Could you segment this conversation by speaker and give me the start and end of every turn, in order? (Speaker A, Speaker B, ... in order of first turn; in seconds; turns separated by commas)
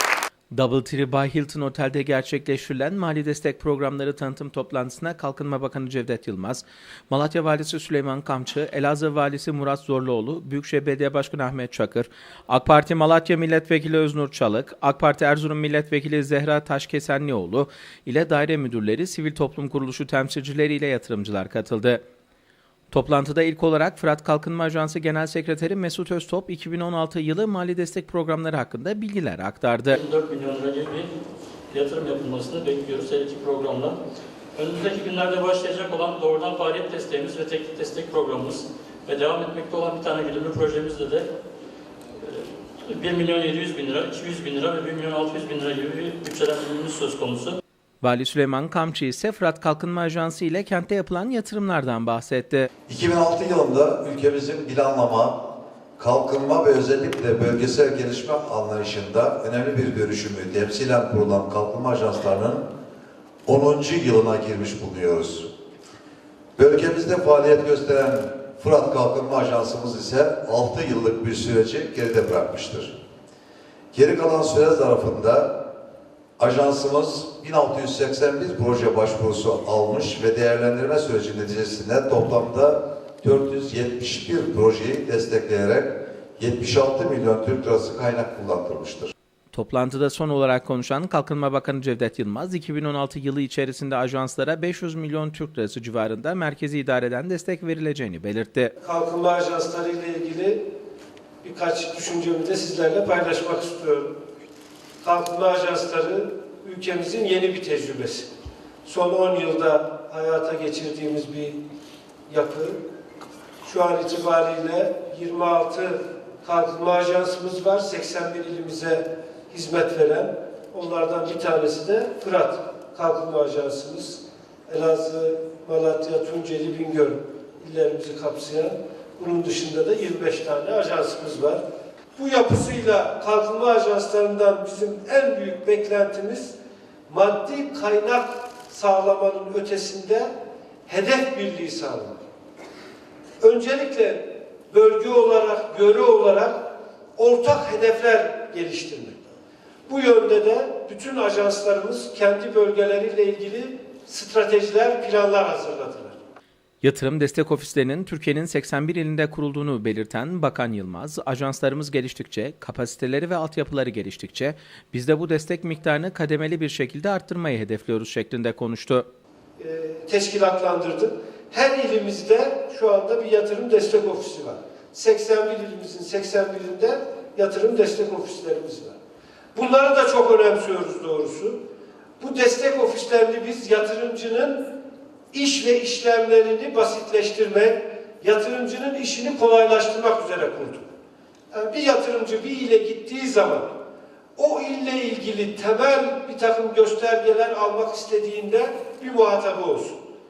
Speaker A: 0.5-22.0, Speaker A: 22.9-29.9, Speaker B: 29.9-31.1, Speaker B: 31.7-34.0, Speaker B: 34.5-41.2, Speaker B: 42.2-47.6, Speaker A: 48.0-52.7, Speaker C: 52.9-55.4, Speaker C: 56.0-62.6, Speaker C: 63.5-65.5, Speaker C: 66.5-72.9, Speaker C: 73.9-75.5, Speaker C: 76.4-89.1, Speaker A: 89.5-98.7, Speaker D: 98.8-100.6, Speaker D: 101.4-104.1, Speaker D: 105.0-108.3, Speaker D: 108.8-111.6, Speaker D: 112.3-112.8, Speaker D: 113.6-131.6, Speaker D: 132.1-136.6, Speaker D: 137.1-140.3, Speaker D: 140.8-142.2, Speaker D: 143.4-146.6, Speaker D: 147.2-149.3, Speaker D: 149.9-156.2, Speaker A: 156.8-169.1, Speaker D: 169.6-178.9, Speaker D: 179.5-181.6, Speaker D: 182.2-184.6, Speaker D: 185.3-190.8, Speaker D: 191.5-193.7, Speaker D: 194.3-200.0